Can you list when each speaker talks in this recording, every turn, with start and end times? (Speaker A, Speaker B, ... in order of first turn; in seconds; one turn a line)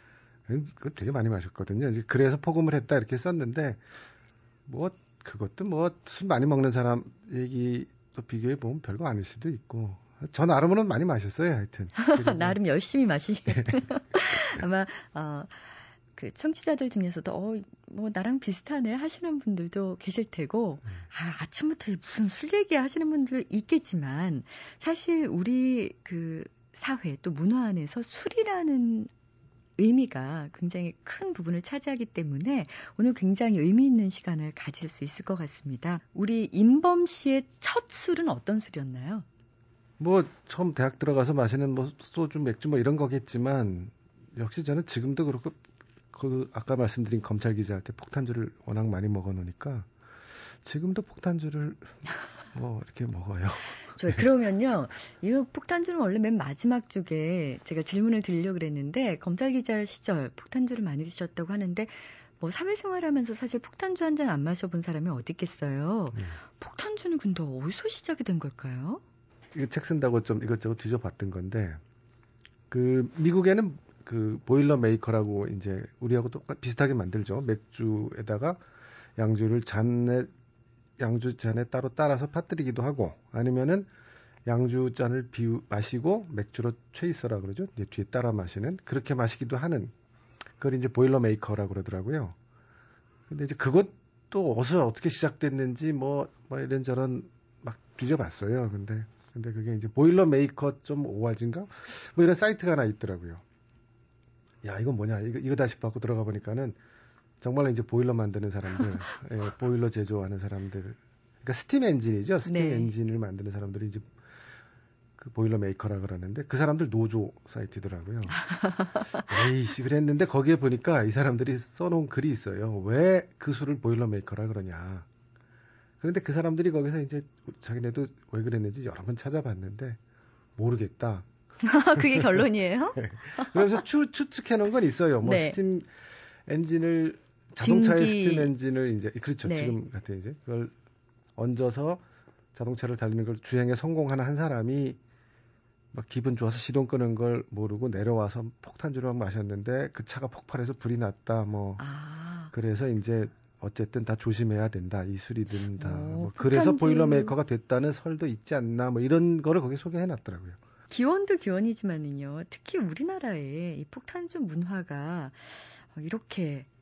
Speaker A: 0.5-3.8
Speaker A: 4.7-12.6
Speaker B: 12.0-29.1
Speaker B: 29.8-39.2
Speaker A: 40.0-45.6
Speaker A: 46.1-49.9
Speaker A: 50.6-52.0
Speaker A: 52.5-54.2
Speaker B: 54.0-69.0
Speaker A: 69.5-71.8
Speaker A: 72.7-78.6
Speaker A: 79.2-80.3
Speaker A: 81.0-83.9
Speaker A: 84.5-89.9
Speaker A: 90.6-92.4
Speaker A: 93.3-103.4
Speaker A: 104.6-106.8
Speaker A: 107.4-114.1
Speaker B: 112.5-112.9
Speaker A: 115.2-118.5
Speaker A: 119.1-125.0
Speaker A: 126.0-130.0
Speaker A: 130.6-131.3
Speaker B: 131.6-133.8
Speaker A: 131.9-132.4
Speaker A: 133.0-135.9
Speaker B: 135.2-135.6
Speaker A: 136.5-140.7
Speaker B: 137.6-138.5
Speaker B: 139.4-139.8
Speaker A: 141.4-142.0
Speaker A: 142.5-145.0
Speaker A: 145.9-151.8
Speaker B: 151.8-152.5
Speaker A: 152.5-160.6
Speaker B: 155.8-157.3
Speaker B: 160.9-166.7